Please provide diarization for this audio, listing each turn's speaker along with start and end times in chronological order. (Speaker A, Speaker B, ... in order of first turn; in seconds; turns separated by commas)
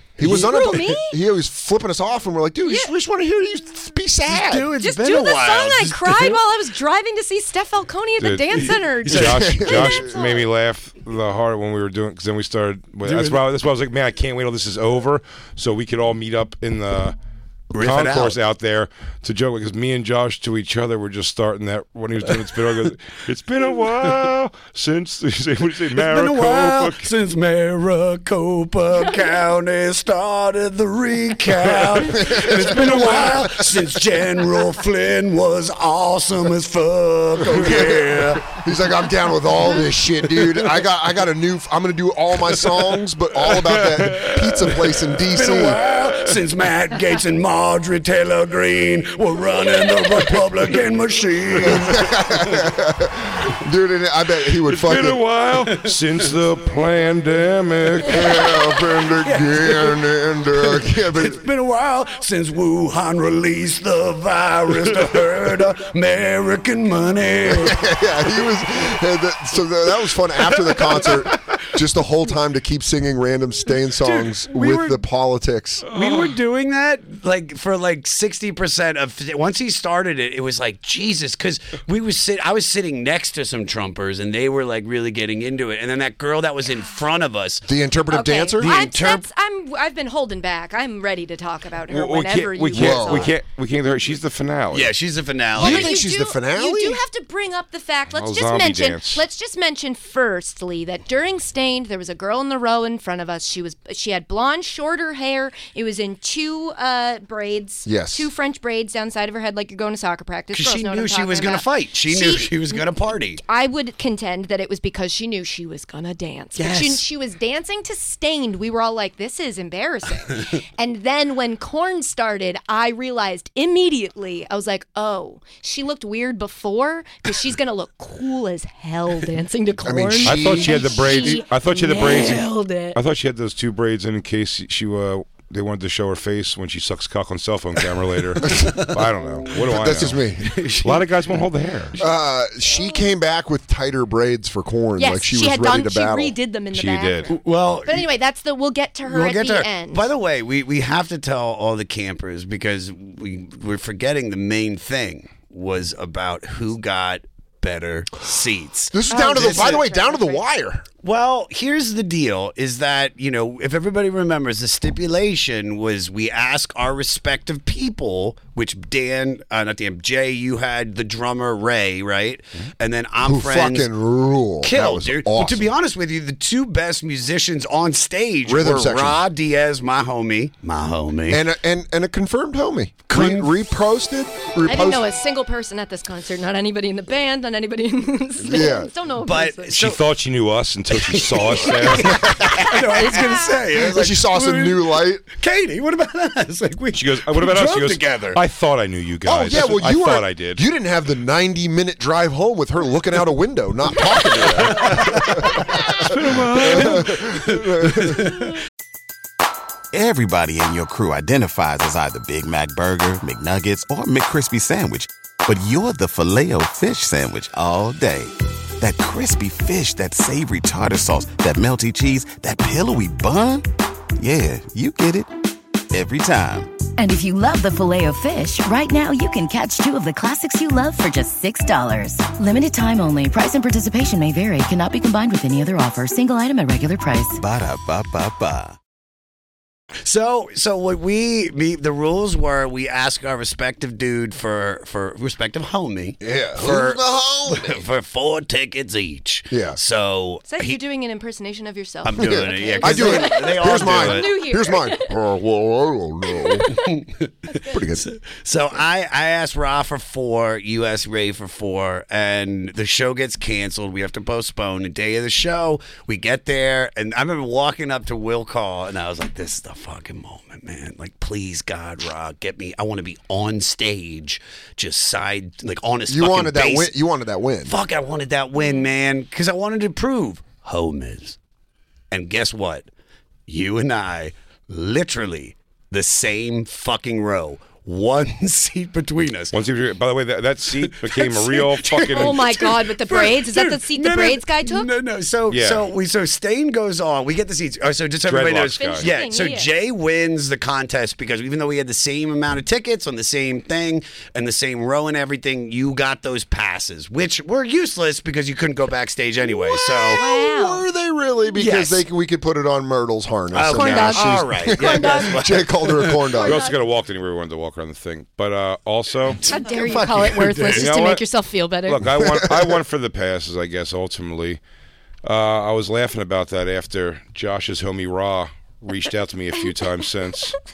Speaker A: 0.2-4.7, Speaker B: 0.2-1.2, Speaker B: 2.6-2.9, Speaker C: 4.3-6.4, Speaker B: 4.8-10.5, Speaker D: 8.2-17.2, Speaker C: 8.6-9.5, Speaker A: 9.2-10.1, Speaker C: 13.0-13.4, Speaker C: 17.7-18.4, Speaker D: 17.8-27.1, Speaker C: 25.9-38.5, Speaker A: 32.1-33.4, Speaker A: 37.4-45.8, Speaker C: 40.4-40.7, Speaker D: 43.7-45.0, Speaker C: 45.3-52.2, Speaker A: 51.6-55.2, Speaker D: 54.7-58.5, Speaker A: 58.0-61.4, Speaker C: 58.3-58.5, Speaker C: 59.2-60.0, Speaker C: 60.6-67.8, Speaker A: 67.5-75.8, Speaker C: 74.0-75.0, Speaker D: 75.9-76.3, Speaker C: 75.9-87.7, Speaker A: 87.7-88.8, Speaker B: 88.1-93.4, Speaker C: 88.6-89.2, Speaker D: 91.9-94.9, Speaker A: 92.7-93.3, Speaker C: 94.7-95.9, Speaker A: 95.5-97.0, Speaker B: 95.6-112.8, Speaker D: 98.1-99.2, Speaker A: 107.9-108.3, Speaker C: 110.5-113.4, Speaker B: 113.4-133.0, Speaker C: 116.6-117.0, Speaker A: 129.8-131.4, Speaker D: 130.2-140.3, Speaker A: 138.4-138.8, Speaker C: 139.6-141.4, Speaker A: 139.7-140.6, Speaker D: 140.8-142.0, Speaker A: 142.0-146.3, Speaker B: 145.0-150.1, Speaker D: 146.7-147.3, Speaker C: 147.3-148.1, Speaker C: 149.1-159.8, Speaker A: 158.9-160.8, Speaker B: 159.1-160.4, Speaker C: 161.0-173.9, Speaker A: 173.2-175.7, Speaker C: 174.6-181.4, Speaker A: 178.5-179.2, Speaker A: 181.3-185.1, Speaker C: 183.1-183.6, Speaker B: 184.7-189.9, Speaker A: 188.4-188.9, Speaker C: 189.2-190.0, Speaker D: 189.8-192.5, Speaker C: 190.9-198.4, Speaker A: 192.2-193.0, Speaker B: 192.8-193.7, Speaker A: 193.7-195.2, Speaker D: 196.9-200.6, Speaker A: 199.2-208.2, Speaker D: 205.9-207.3, Speaker C: 207.5-208.3, Speaker E: 209.9-225.3, Speaker E: 225.9-226.7, Speaker F: 227.0-237.4, Speaker E: 237.4-238.8, Speaker C: 240.0-250.8, Speaker A: 246.2-247.8, Speaker A: 249.5-249.8, Speaker B: 250.5-255.1, Speaker C: 252.0-254.4, Speaker A: 252.2-256.7, Speaker B: 256.3-256.7, Speaker C: 256.7-257.3, Speaker A: 257.7-258.1, Speaker C: 258.0-276.9, Speaker A: 276.1-277.8, Speaker C: 277.6-281.4, Speaker B: 278.6-278.9, Speaker C: 282.1-282.9, Speaker C: 283.5-289.5, Speaker D: 289.5-292.6, Speaker C: 290.8-310.2, Speaker B: 292.1-294.9, Speaker D: 295.5-295.9, Speaker D: 298.2-299.1, Speaker B: 298.7-299.7, Speaker A: 309.9-316.6, Speaker B: 310.1-310.9, Speaker C: 311.6-312.0, Speaker C: 313.5-316.3, Speaker B: 313.7-315.6, Speaker B: 316.3-316.9, Speaker D: 316.4-319.4, Speaker C: 319.3-320.9, Speaker B: 319.5-322.2, Speaker D: 320.7-321.2, Speaker D: 321.9-324.6, Speaker A: 322.1-322.8, Speaker D: 325.2-330.6